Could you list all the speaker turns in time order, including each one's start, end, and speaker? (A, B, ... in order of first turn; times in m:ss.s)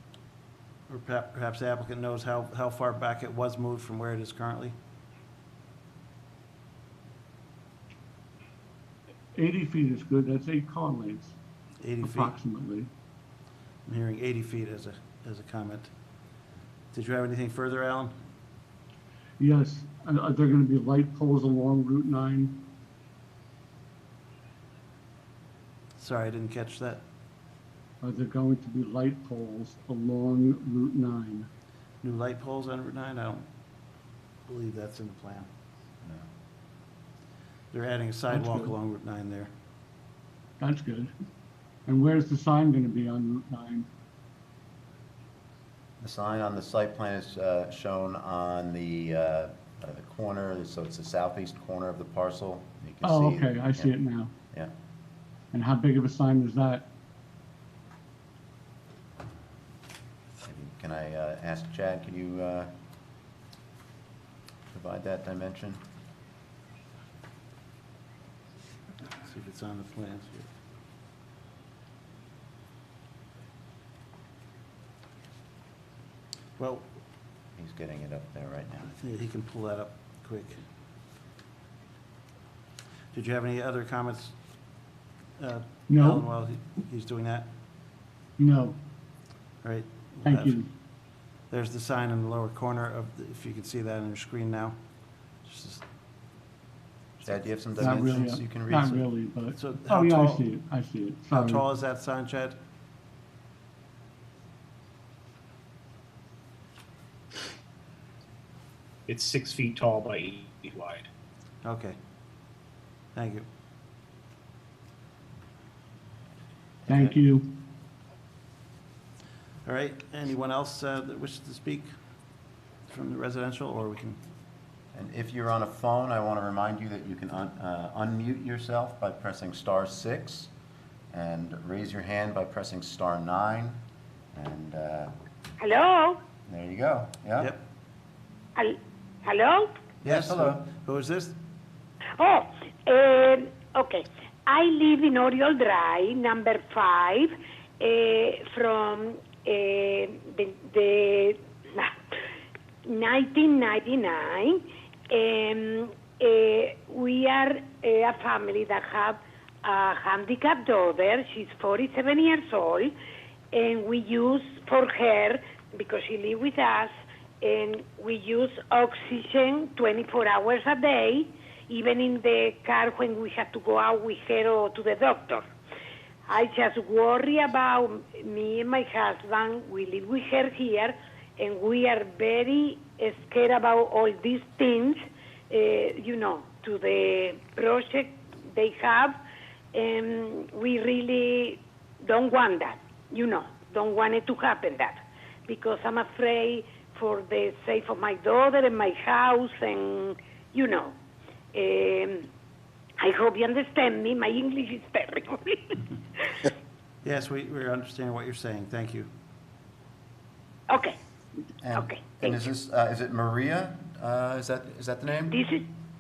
0:00.9-0:04.7 A
0:09.4-0:11.4 B
0:11.8-0:12.4 A
0:12.0-0:12.9 B
0:13.9-0:15.9 A
0:16.9-0:18.1 A
0:19.4-0:22.6 B
0:26.0-0:27.0 A
0:28.0-0:31.5 B
0:32.0-0:33.4 A
0:34.5-0:35.5 A
0:37.7-0:39.5 A
0:38.3-0:38.7 B
0:40.6-0:41.1 B
0:41.9-0:43.9 B
0:46.0-0:53.9 C
0:53.0-0:54.3 B
0:55.5-0:56.8 B
1:00.4-1:02.7 C
1:04.7-1:05.8 C
1:09.2-1:10.5 A
1:16.6-1:16.9 A
1:17.6-1:19.0 C
1:19.0-1:20.6 A
1:23.1-1:24.3 A
1:25.4-1:27.5 A
1:25.9-1:26.3 B
1:28.4-1:28.8 B
1:29.6-1:30.6 A
1:30.2-1:30.7 B
1:31.5-1:34.8 A
1:35.4-1:35.8 A
1:37.2-1:39.1 C
1:37.8-1:41.7 B
1:39.6-1:40.4 A
1:41.3-1:42.6 A
1:49.1-1:51.1 D
1:51.6-1:52.0 A
1:53.2-1:53.5 A
1:56.9-1:57.5 B
1:59.6-2:01.9 A
2:02.9-2:04.2 A
2:04.9-2:10.5 C
2:11.1-2:13.8 C
2:14.3-2:15.1 C
2:15.6-2:16.2 E
2:16.5-2:17.5 C
2:17.4-2:17.6 A
2:18.6-2:19.8 E
2:20.0-2:21.4 A
2:20.0-2:20.6 C
2:22.2-2:31.9 E
2:32.9-2:42.9 E
2:43.5-2:55.4 E
2:56.3-3:09.2 E
3:09.7-3:21.0 E
3:21.5-3:22.3 E
3:23.0-3:25.8 E
3:27.0-3:29.1 A
3:30.7-3:31.0 E
3:31.6-3:35.4 C
3:31.7-3:32.5 E
3:35.3-3:35.7 E